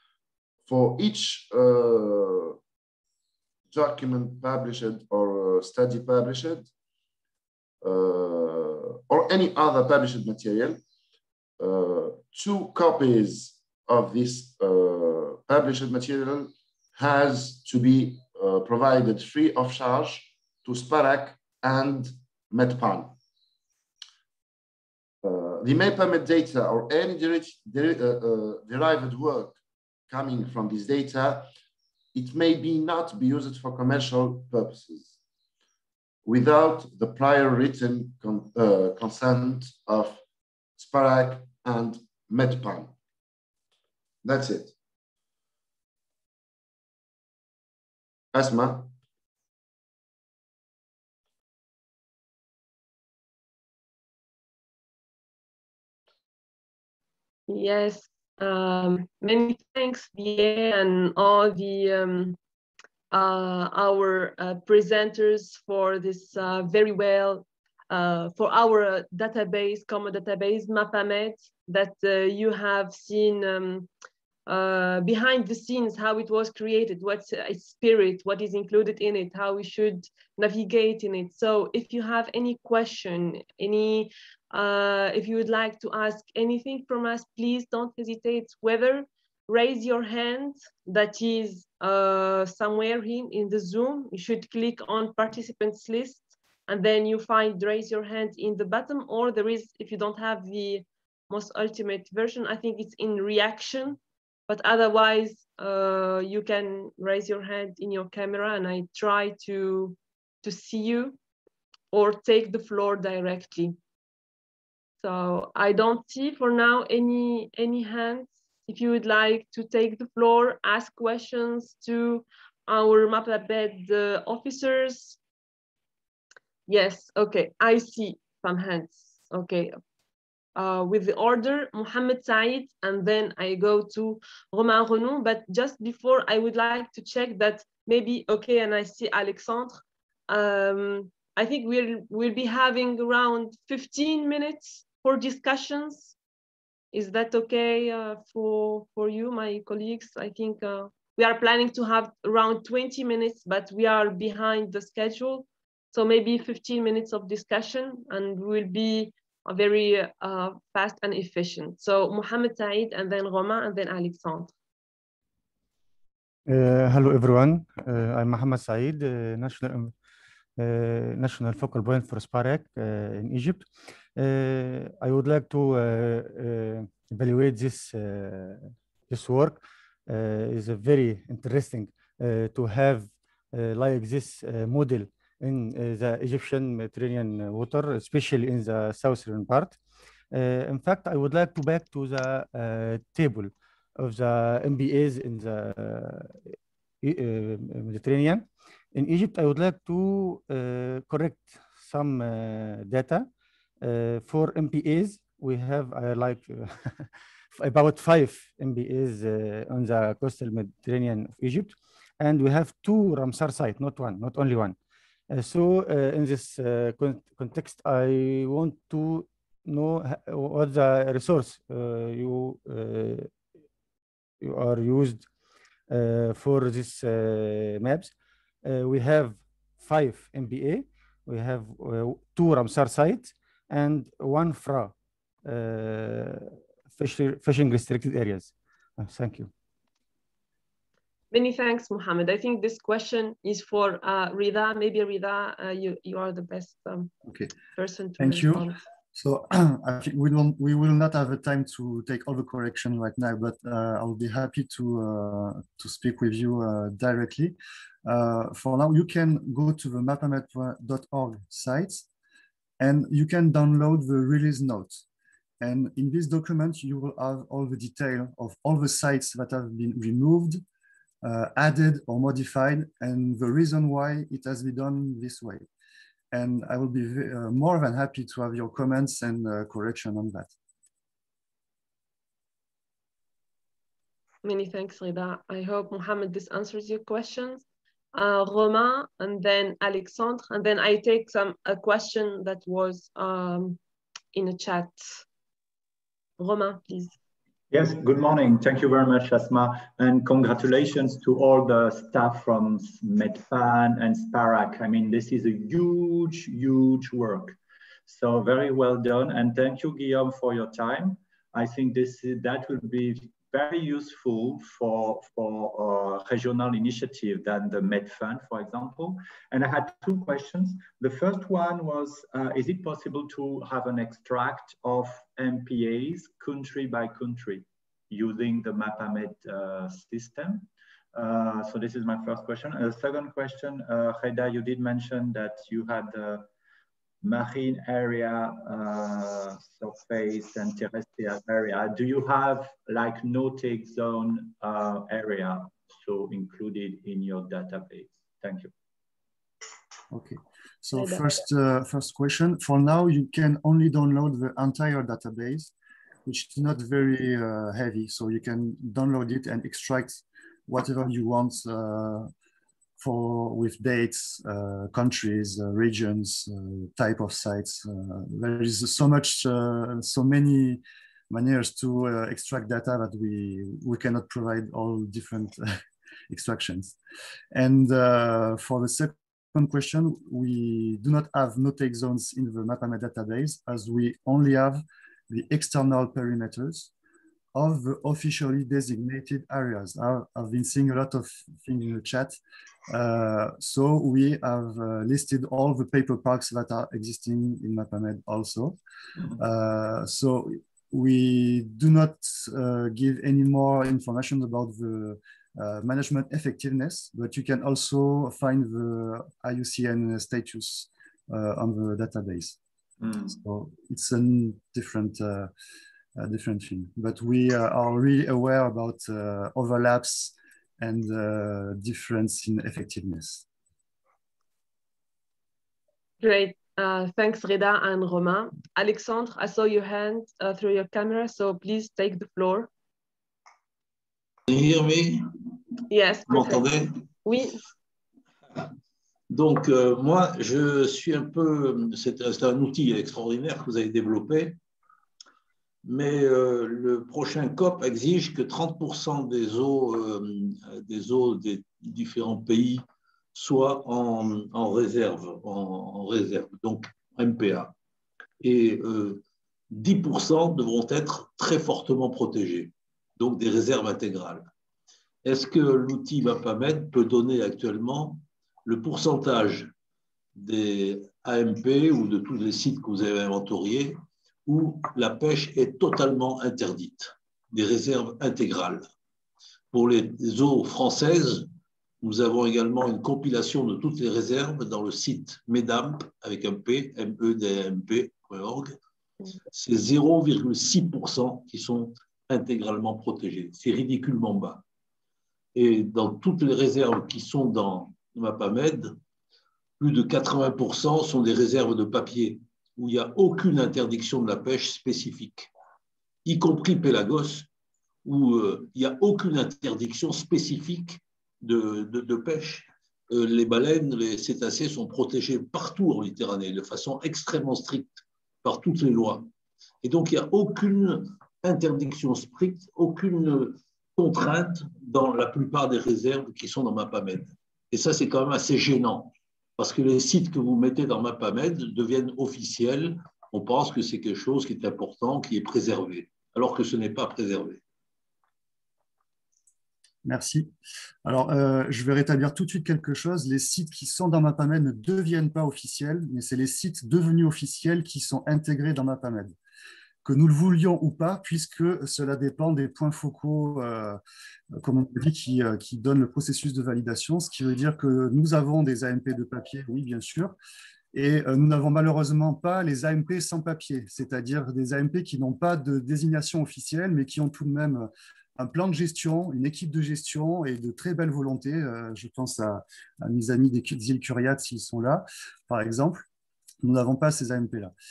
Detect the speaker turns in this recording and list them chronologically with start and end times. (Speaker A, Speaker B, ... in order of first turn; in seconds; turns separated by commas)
Speaker A: 0.7-2.6, Speaker A: 3.7-6.7, Speaker A: 7.8-10.8, Speaker A: 11.6-23.2, Speaker A: 25.2-29.6, Speaker A: 30.1-31.5, Speaker A: 32.1-35.1, Speaker A: 36.2-40.2, Speaker A: 40.8-43.0, Speaker A: 44.2-44.7, Speaker A: 48.3-48.9, Speaker B: 57.5-62.4, Speaker B: 63.1-73.9, Speaker B: 74.5-111.2, Speaker B: 111.9-113.8, Speaker B: 115.0-125.2, Speaker B: 126.7-129.8, Speaker B: 130.6-146.2, Speaker B: 146.9-164.5, Speaker C: 166.5-169.9, Speaker C: 170.6-189.8, Speaker C: 190.3-196.4, Speaker C: 197.0-203.3, Speaker C: 203.8-214.8, Speaker C: 215.3-223.3, Speaker C: 224.4-225.3, Speaker C: 225.9-228.1, Speaker C: 228.6-234.9, Speaker C: 235.4-239.5, Speaker B: 241.3-247.1, Speaker D: 247.3-247.6, Speaker B: 247.8-248.8, Speaker D: 248.2-262.1, Speaker D: 262.8-265.0, Speaker D: 265.6-270.6, Speaker D: 271.2-275.6, Speaker D: 276.3-280.5, Speaker B: 284.4-293.8, Speaker B: 294.3-295.2, Speaker B: 296.4-297.2, Speaker E: 297.7-336.5, Speaker E: 337.2-348.7, Speaker D: 350.1-355.7, Speaker B: 350.9-351.3, Speaker D: 356.3-362.3, Speaker D: 363.0-375.7, Speaker D: 376.3-377.0, Speaker D: 377.5-386.9, Speaker D: 387.5-398.8, Speaker D: 399.4-412.6, Speaker E: 413.0-413.4, Speaker D: 413.3-415.5, Speaker D: 416.2-423.4, Speaker B: 426.2-432.7, Speaker F: 434.5-435.2, Speaker B: 435.9-436.7, Speaker F: 436.3-436.9, Speaker B: 437.2-437.6, Speaker F: 439.3-444.6, Speaker F: 445.9-457.7, Speaker F: 458.4-464.5, Speaker F: 465.2-469.7, Speaker F: 470.4-478.9, Speaker F: 479.7-481.5, Speaker F: 482.0-488.8, Speaker F: 489.5-494.6, Speaker F: 495.6-498.9, Speaker F: 499.8-505.5, Speaker F: 506.2-507.5, Speaker F: 508.1-519.3, Speaker F: 519.8-537.6, Speaker D: 540.0-540.5, Speaker D: 541.0-549.4, Speaker D: 550.0-554.0, Speaker D: 554.6-560.4, Speaker D: 560.9-576.0, Speaker D: 576.6-577.7